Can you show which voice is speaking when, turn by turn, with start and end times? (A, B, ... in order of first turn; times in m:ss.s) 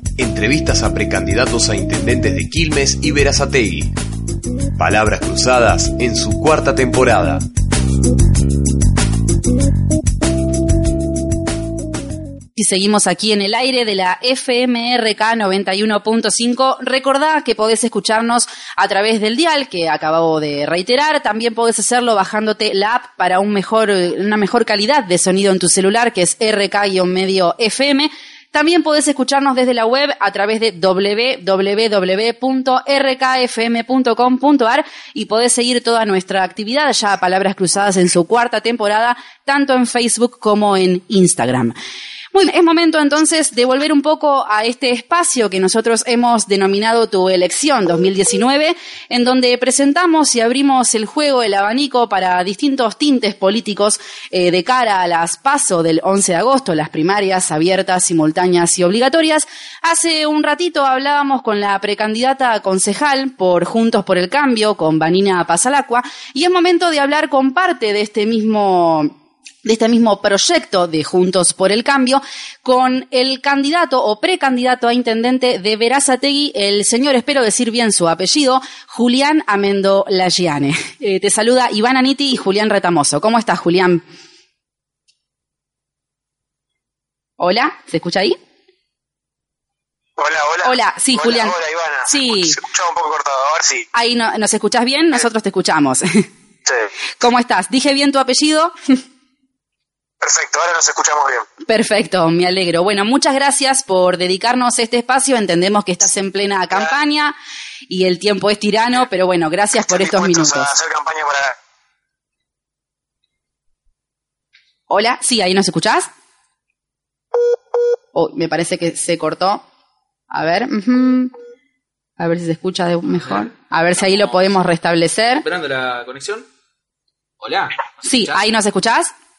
0:00.2-0:03.9 A
0:04.8-0:07.4 A
0:12.5-0:41.7 B
0:42.3-1:24.0 B
1:27.4-1:28.4 B
1:30.2-1:33.8 C
1:30.6-1:32.6 B
1:33.9-1:36.2 B
1:37.2-1:38.7 B
1:40.2-1:41.4 C
1:41.7-1:47.3 B
1:47.9-1:50.7 B
1:49.9-1:51.5 C
1:54.9-1:56.1 B
1:58.1-1:59.6 B
2:00.3-2:01.3 B
2:02.2-2:05.4 B
2:04.0-2:04.5 D
2:05.4-2:06.5 D
2:07.4-2:08.4 D
2:08.0-2:09.1 B